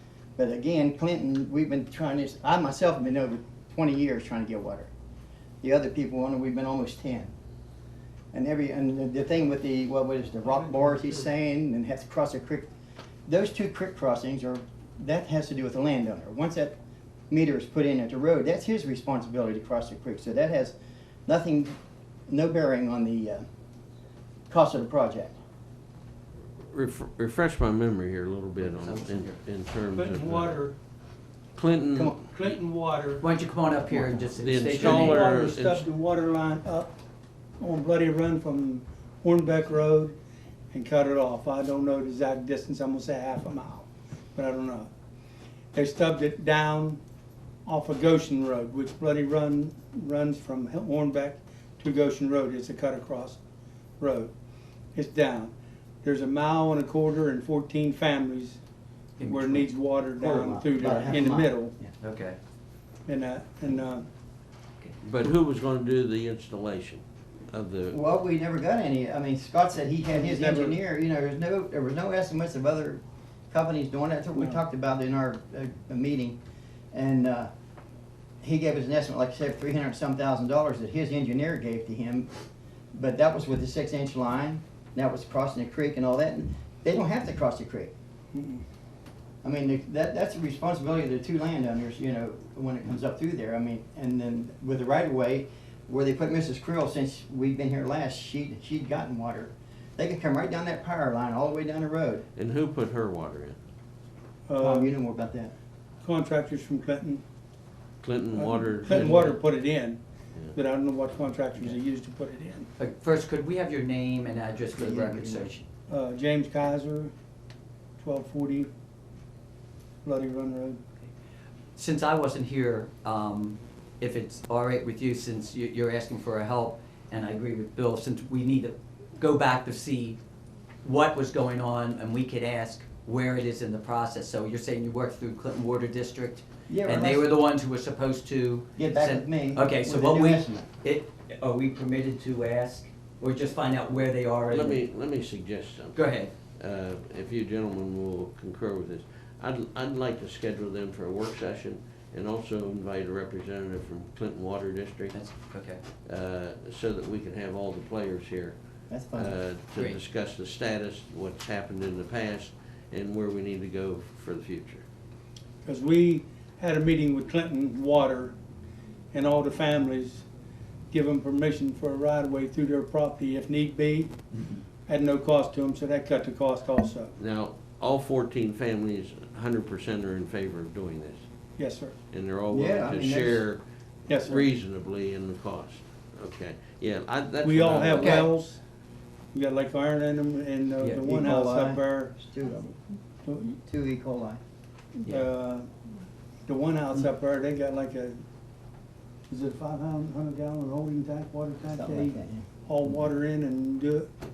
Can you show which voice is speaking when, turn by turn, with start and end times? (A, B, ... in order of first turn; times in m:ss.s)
0:00.4-0:04.9 A
0:05.6-0:07.3 A
0:08.3-0:12.7 A
0:13.3-0:16.8 A
0:17.3-0:20.7 A
0:21.2-0:21.8 A
0:22.3-0:23.4 A
0:24.5-0:25.4 A
0:26.7-0:30.6 B
0:28.6-0:29.4 C
0:30.0-0:30.7 D
0:31.6-0:32.2 B
0:32.3-0:33.2 D
0:33.2-0:35.3 C
0:34.3-0:35.8 B
0:34.7-0:37.0 D
0:37.6-0:40.2 D
0:40.7-0:44.9 D
0:45.7-0:47.0 D
0:47.6-0:53.4 D
0:54.0-0:54.3 D
0:54.9-0:58.6 D
0:59.2-0:59.7 C
0:59.2-1:01.7 D
1:00.2-1:01.9 A
1:02.0-1:02.4 C
1:03.0-1:04.1 D
1:05.0-1:08.0 B
1:07.9-1:16.4 A
1:10.1-1:10.8 D
1:16.9-1:17.5 A
1:18.4-1:22.3 A
1:22.9-1:27.9 A
1:28.3-1:28.6 D
1:29.4-1:42.2 A
1:42.4-1:43.6 B
1:44.5-1:44.9 D
1:44.6-1:45.5 A
1:46.0-1:47.2 D
1:48.0-1:49.4 B
1:48.3-1:50.0 D
1:50.5-1:52.7 D
1:52.8-1:55.6 C
1:54.7-1:55.5 A
1:55.9-1:57.1 D
1:58.0-1:58.7 D
2:00.0-2:00.8 D
2:01.8-2:10.2 C
2:10.8-2:24.9 C
2:16.7-2:17.3 A
2:18.8-2:20.7 A
2:24.5-2:35.2 B
2:25.9-2:26.3 C
2:35.1-2:35.8 C
2:36.0-2:38.6 B
2:38.9-2:39.3 A
2:39.1-2:44.8 B
2:45.6-2:48.3 D
2:49.1-2:50.2 D
2:50.9-2:54.1 D
2:54.9-2:57.1 D
2:57.2-3:01.2 B
3:01.6-3:01.9 D
3:02.1-3:08.3 B
3:02.5-3:03.4 A
3:04.1-3:04.5 D
3:07.4-3:08.6 D
3:07.9-3:08.3 C
3:09.3-3:12.1 D
3:11.0-3:12.7 A
3:13.2-3:13.6 D
3:13.6-3:14.4 A
3:15.0-3:15.7 D
3:16.4-3:18.2 D
3:19.3-3:24.1 D
3:21.7-3:22.4 A